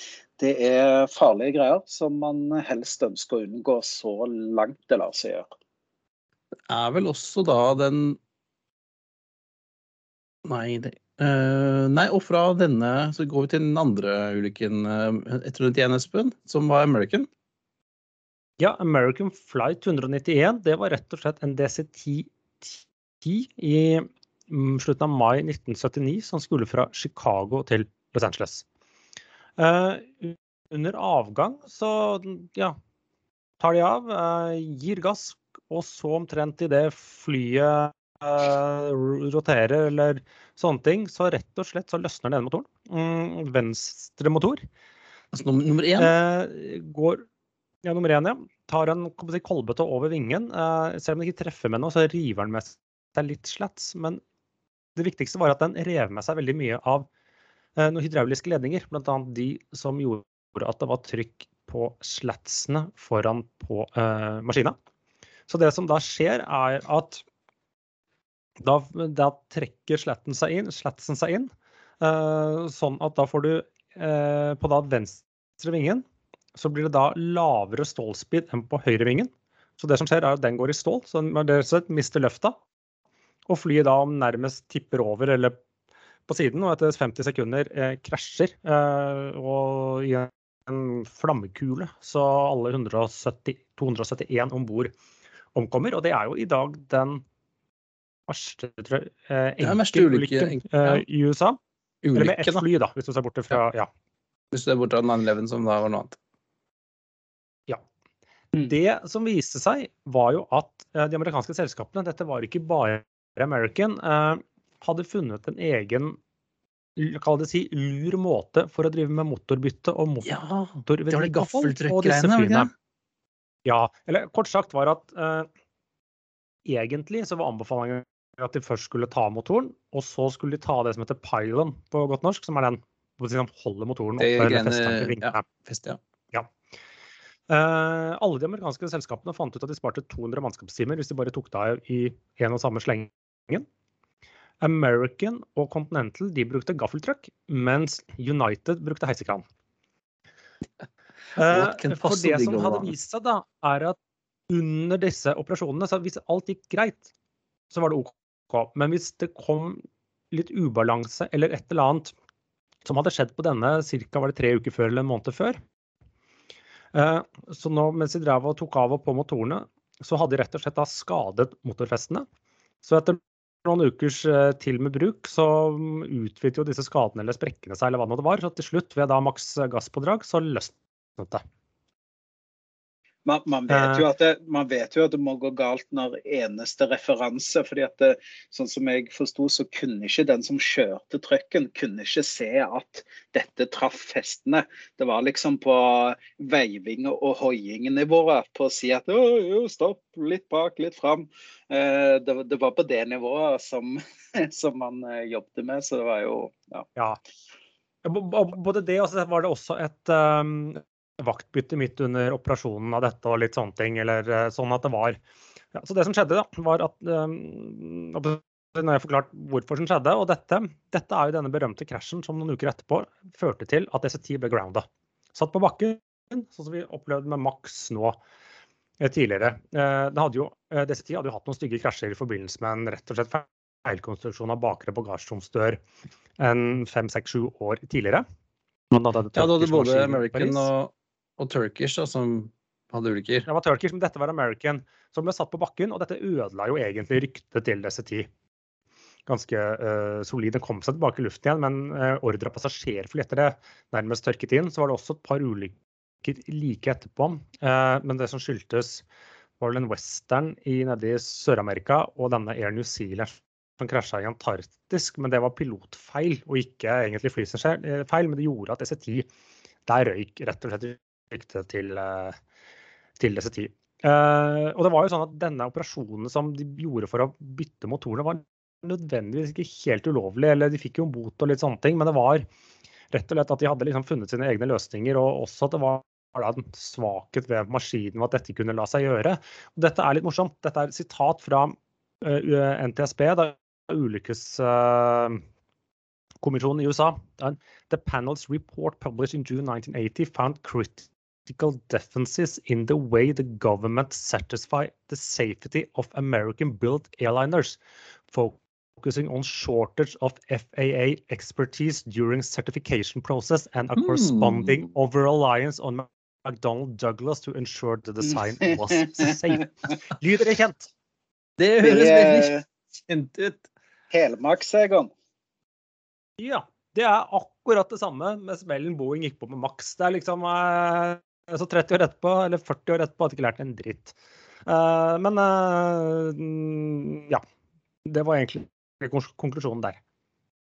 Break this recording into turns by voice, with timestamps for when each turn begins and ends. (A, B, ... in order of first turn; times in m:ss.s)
0:00.4-0:05.5 A
0:06.7-0:08.2 B
0:10.4-0:17.3 B
0:18.6-0:28.6 C
0:29.6-0:32.8 C
0:33.6-0:44.6 C
0:45.3-0:46.1 B
0:46.0-0:47.2 C
0:47.8-0:54.2 C
0:55.0-0:57.1 C
0:57.8-1:04.8 C
1:05.5-1:07.2 C
1:08.6-1:11.5 C
1:12.0-1:16.0 C
1:16.5-1:22.6 C
1:23.5-1:25.6 C
1:26.3-1:34.9 C
1:35.5-1:37.2 C
1:38.3-1:41.6 C
1:39.6-1:41.0 B
1:42.0-1:42.6 B
1:42.1-1:43.9 C
1:44.5-1:46.2 B
1:48.6-1:56.2 C
1:57.0-2:00.3 C
2:00.2-2:02.7 B
2:00.8-2:02.7 C
2:03.6-2:05.5 C
2:06.6-2:15.4 C
2:14.2-2:16.0 B
2:17.5-2:23.6 C
2:24.6-2:29.4 C
2:31.4-2:34.0 C
2:31.4-2:32.9 B
2:34.5-2:37.0 C
2:37.7-2:42.1 C
2:42.8-2:45.6 C
2:46.9-2:52.2 C
2:52.8-3:01.4 C
3:03.2-3:26.9 A
3:03.7-3:04.0 C
3:28.0-3:35.2 C
3:35.7-3:48.2 C
3:49.0-3:55.8 C
3:56.4-3:58.2 C
3:58.9-4:00.7 C
3:59.3-4:03.5 B
4:03.5-4:08.3 C
4:09.3-4:19.0 C
4:19.6-4:29.3 C
4:29.9-4:32.4 C
4:33.2-4:42.4 C
4:43.1-4:55.4 C
4:56.4-5:20.9 C
5:14.0-5:14.8 B
5:18.8-5:19.3 A
5:21.6-5:23.6 B
5:21.8-5:22.6 A
5:24.1-5:25.1 A
5:26.4-5:37.4 C
5:38.0-5:40.0 C